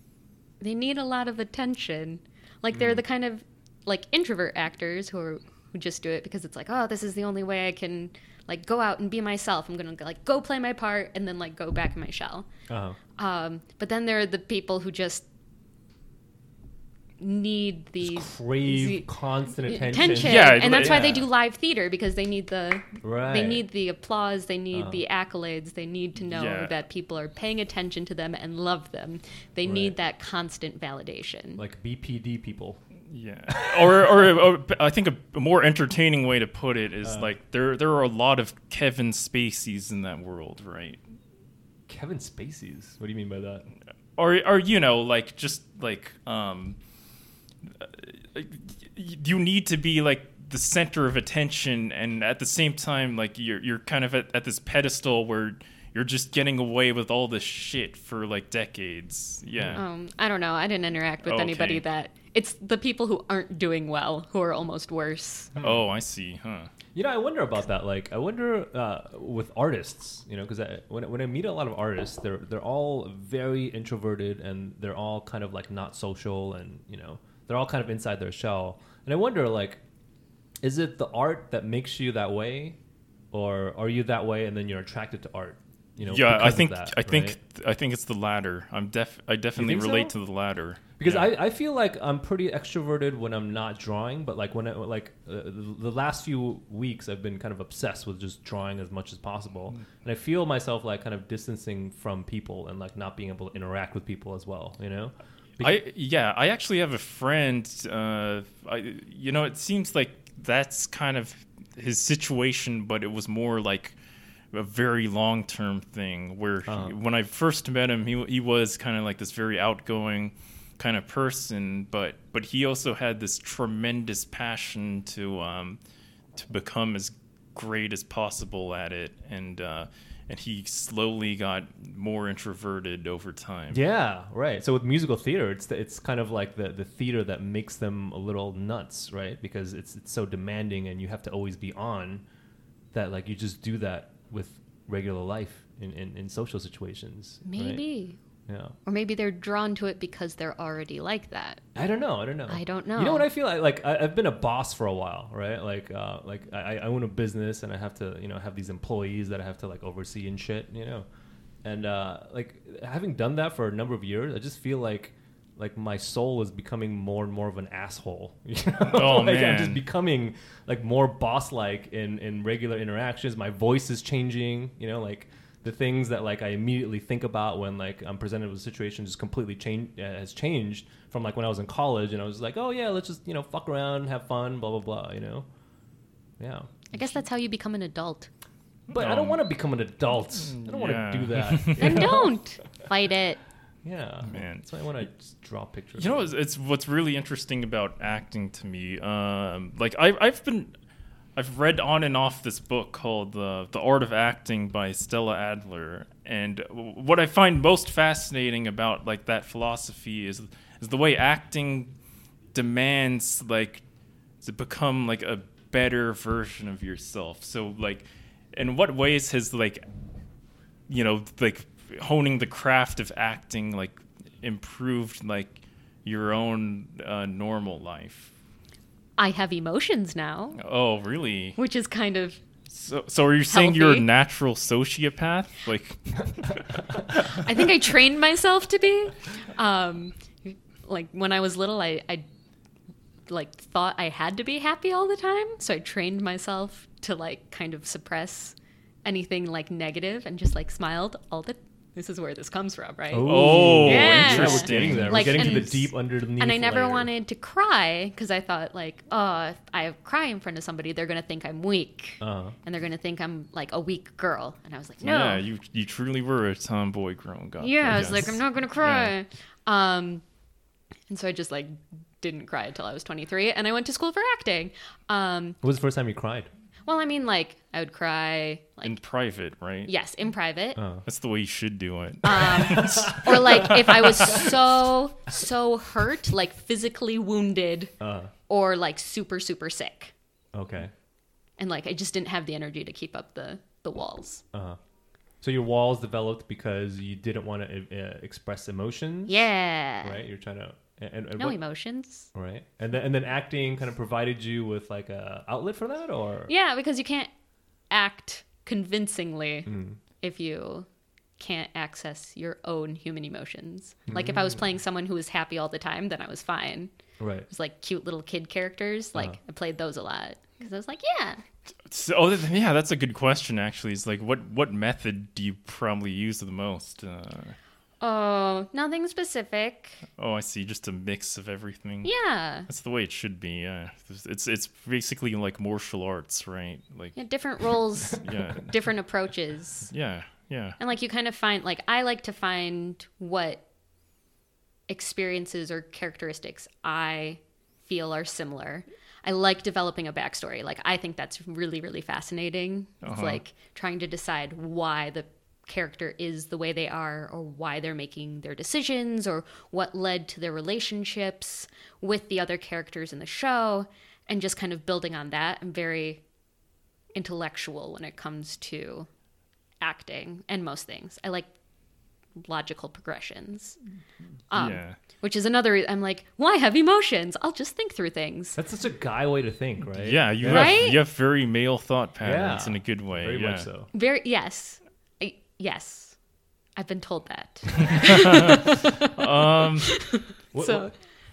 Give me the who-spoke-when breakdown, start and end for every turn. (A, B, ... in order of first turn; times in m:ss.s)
0:00.6-0:12.5 A
0:12.7-0:13.0 B
0:13.2-0:15.2 A
0:17.2-0:19.1 A
0:18.0-0:21.3 B
0:19.6-0:31.6 A
0:20.0-0:21.3 C
0:23.0-0:23.7 B
0:24.7-0:25.0 B
0:26.2-0:26.8 C
0:29.6-0:30.0 B
0:31.6-0:32.8 B
0:33.1-0:41.0 C
0:33.5-0:34.3 B
0:37.0-0:37.3 B
0:41.9-0:43.7 B
0:44.2-0:46.8 C
0:47.7-0:59.8 C
0:59.6-0:59.8 B
0:59.7-1:05.5 A
1:01.2-1:01.8 C
1:05.6-1:06.7 C
1:06.9-1:19.8 B
1:20.6-1:22.8 B
1:23.3-1:27.4 B
1:26.0-1:31.3 C
1:29.6-1:30.1 B
1:31.0-1:45.8 B
1:45.6-1:54.0 C
1:54.5-2:05.8 C
1:56.7-1:57.0 B
2:06.4-2:13.8 C
2:13.7-2:22.2 B
2:22.9-2:27.8 B
2:27.4-2:28.2 A
2:28.5-2:28.8 B
2:28.8-2:31.6 A
2:31.8-2:41.1 B
2:32.5-2:33.3 A
2:41.6-3:05.5 B
2:48.9-2:49.8 C
3:06.4-3:07.0 B
3:06.9-3:08.3 A
3:08.9-3:09.4 C
3:08.9-3:12.4 B
3:10.2-3:12.1 C
3:11.8-3:13.4 A
3:13.8-3:16.3 B
3:14.2-3:14.7 C
3:16.0-3:20.7 C
3:21.4-3:31.9 C
3:32.5-3:33.8 C
3:34.4-3:39.8 C
3:40.9-3:48.3 C
3:49.2-3:50.6 A
3:50.6-3:51.6 C
3:51.6-3:52.4 A
3:52.7-3:57.5 C
3:53.5-3:54.1 A
3:57.3-4:02.2 A
4:03.3-4:25.4 A
4:13.1-4:17.1 B
4:13.2-4:15.7 C
4:22.2-4:22.6 B
4:25.0-4:29.1 C
4:27.6-4:30.2 A
4:31.1-4:35.6 A
4:35.6-4:36.5 B
4:36.9-4:39.0 A
4:38.8-4:39.9 C
4:39.9-4:40.8 A
4:40.8-4:41.0 B
4:41.0-4:44.5 C
4:42.2-4:47.9 A
4:42.8-4:43.7 B
4:48.0-4:48.3 B
4:48.5-4:50.1 A
4:50.5-4:50.9 B
4:51.6-4:54.4 A
4:54.5-4:54.8 B
4:55.4-4:59.5 B
4:59.3-5:00.2 A
5:00.0-5:01.6 B
5:01.4-5:02.3 A
5:02.3-5:06.5 B
5:06.5-5:07.3 A
5:07.9-5:10.9 A
5:09.7-5:10.0 B
5:11.4-5:16.9 A
5:14.1-5:14.6 B
5:17.2-5:17.5 B
5:17.5-5:21.4 A
5:21.8-5:27.6 C
5:28.0-5:30.0 A
5:30.2-5:32.1 C
5:32.0-5:32.7 A
5:32.7-5:37.2 C
5:37.2-5:39.9 A
5:38.1-5:38.7 C
5:39.9-5:40.8 C
5:40.8-5:43.6 A
5:44.9-6:06.2 A
5:53.0-5:53.4 C
6:07.2-6:09.1 A
6:09.8-6:11.5 A
6:12.4-6:13.8 A
6:14.5-6:18.6 A
6:14.5-6:15.0 C
6:18.6-6:20.9 B
6:20.0-6:23.7 C
6:20.4-6:21.0 A
6:22.2-6:23.9 B
6:23.9-6:26.2 A
6:26.8-6:30.9 A
6:28.0-6:30.0 C
6:30.5-6:30.9 B